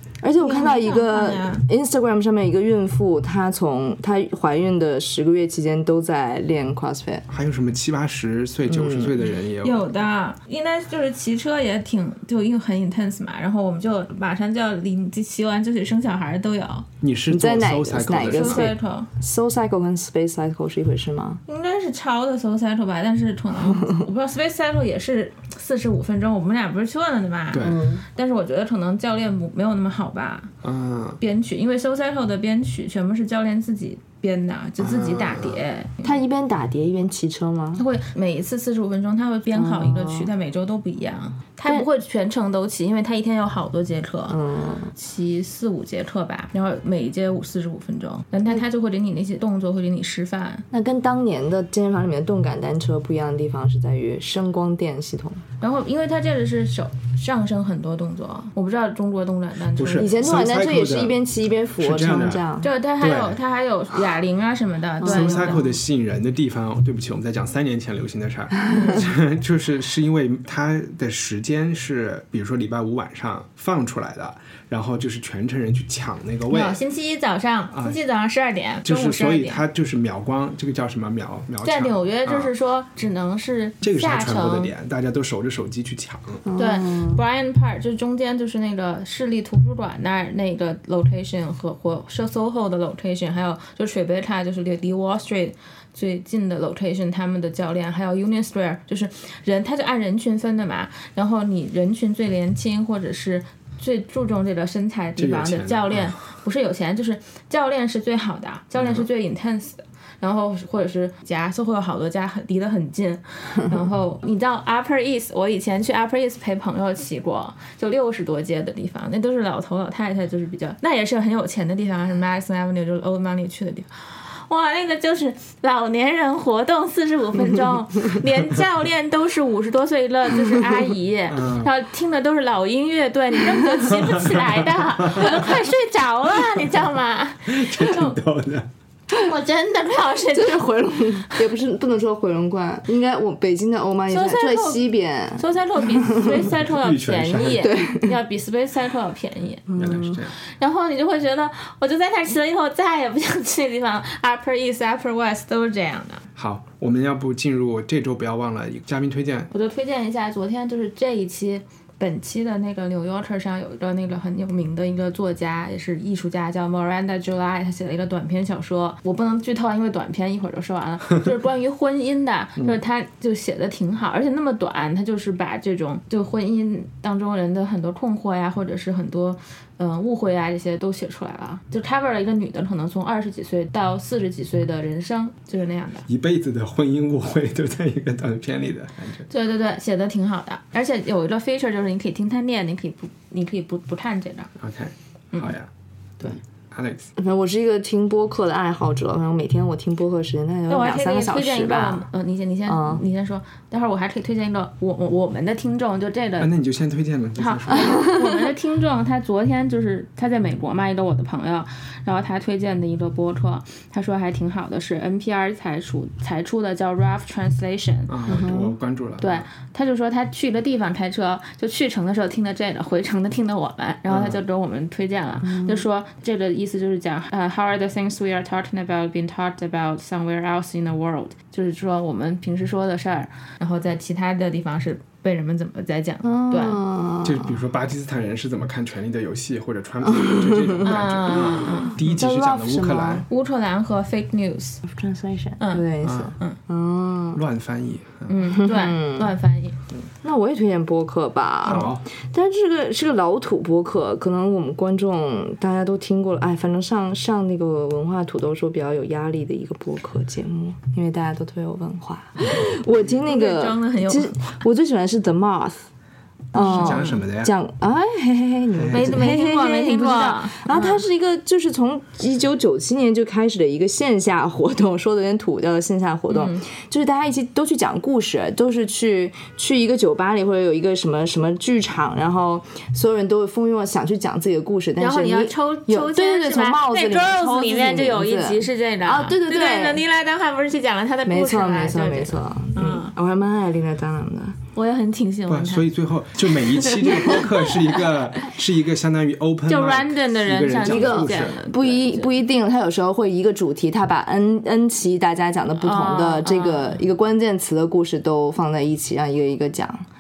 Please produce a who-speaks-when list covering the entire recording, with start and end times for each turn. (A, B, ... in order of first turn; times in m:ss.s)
0:00.2-0:07.2 A
0:00.4-0:01.6 B
0:07.3-0:09.9 C
0:08.7-0:09.3 A
0:09.6-0:16.9 B
0:17.0-0:18.7 C
0:17.3-0:21.4 A
0:18.3-0:19.1 B
0:21.5-0:30.5 B
0:23.7-0:24.0 A
0:27.5-0:27.8 C
0:27.6-0:28.0 A
0:30.6-0:31.2 C
0:31.2-0:36.0 B
0:34.8-0:35.6 C
0:36.0-0:37.8 A
0:37.8-0:44.4 B
0:39.5-0:40.3 A
0:44.3-0:44.9 A
0:45.0-0:50.6 B
0:50.7-0:55.4 A
0:55.6-1:00.1 B
0:59.8-1:01.2 C
1:00.0-1:02.7 A
1:01.8-1:02.4 C
1:02.6-1:05.6 B
1:03.0-1:03.4 C
1:05.0-1:05.8 A
1:05.0-1:16.8 C
1:16.5-1:19.6 B
1:17.7-1:18.0 C
1:18.8-1:22.5 C
1:21.6-1:24.7 B
1:23.8-1:26.4 C
1:26.5-1:27.2 A
1:26.6-2:18.2 B
1:45.2-1:46.2 C
1:48.8-1:49.1 C
2:11.3-2:11.7 C
2:13.9-2:15.5 C
2:17.5-2:18.7 C
2:19.1-2:21.4 B
2:20.3-2:26.3 A
2:24.1-2:24.9 B
2:25.4-2:29.7 B
2:26.4-2:27.7 C
2:27.6-2:28.2 A
2:29.7-2:30.2 A
2:29.8-2:30.4 C
2:30.6-2:36.2 B
2:36.4-2:39.5 C
2:39.5-3:06.1 B
3:06.1-3:09.3 C
3:09.3-3:14.5 B
3:14.6-3:15.7 C
3:16.2-3:17.1 C
3:17.2-3:22.1 A
3:20.7-3:26.5 B
3:22.7-3:23.0 A
3:26.4-3:28.1 C
3:27.4-3:38.1 B
3:38.1-3:39.5 C
3:38.3-3:38.8 A
3:39.2-3:56.8 B
3:44.1-3:44.4 C
3:45.4-3:45.9 A
3:56.2-3:57.6 A
3:57.2-4:03.3 C
4:00.0-4:03.2 A
4:00.8-4:02.0 B
4:03.3-4:04.8 B
4:04.8-4:07.4 A
4:05.6-4:05.8 B
4:06.0-4:06.4 C
4:07.3-4:08.6 C
4:08.3-4:09.8 B
4:08.6-4:09.4 A
4:10.2-4:25.9 A
4:11.6-4:12.0 C
4:23.2-4:24.4 B
4:26.5-4:50.0 A
4:26.6-4:27.2 B
4:26.6-4:27.5 C
4:28.7-4:29.2 C
4:28.9-4:31.0 B
4:36.3-4:36.6 B
4:45.0-4:53.1 B
4:51.3-4:54.6 A
4:54.8-4:55.8 B
4:55.5-5:01.6 C
4:56.7-4:57.5 A
4:59.7-5:02.3 B
5:00.8-5:10.1 A
5:05.8-5:07.0 B